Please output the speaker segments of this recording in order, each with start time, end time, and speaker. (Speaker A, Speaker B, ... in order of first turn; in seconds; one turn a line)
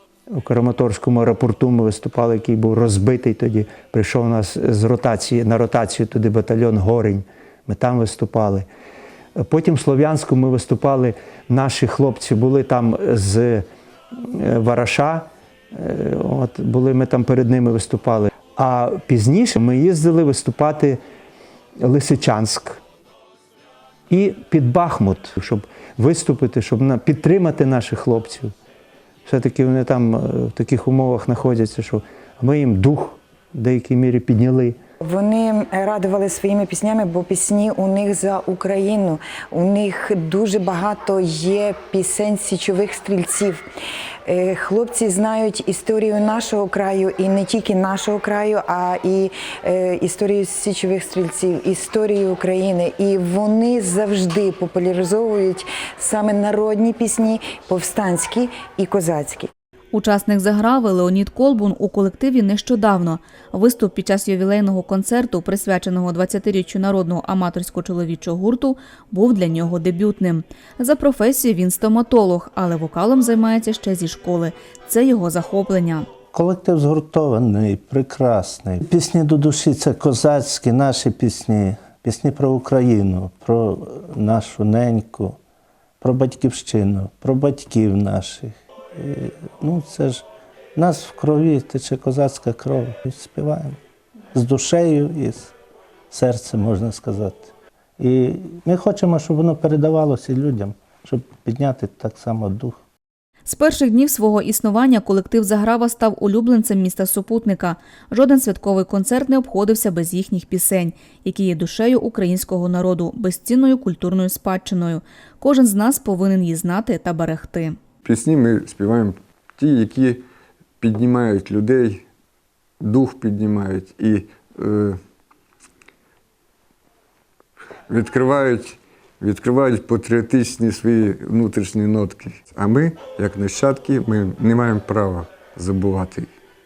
Speaker A: 0.3-8.7
Speaker A: 9.4-21.0
Speaker A: 21.8-22.8
Speaker A: 24.1-28.5
Speaker A: 29.2-34.8
Speaker B: 35.0-43.6
Speaker B: 44.3-59.5
Speaker C: 59.9-76.1
Speaker D: 76.3-85.4
Speaker D: 86.0-93.8
Speaker D: 94.3-95.5
Speaker D: 96.1-102.8
Speaker C: 103.5-117.8
Speaker E: 118.0-120.2
Speaker E: 120.8-122.0
Speaker E: 122.8-125.0
Speaker E: 127.9-136.3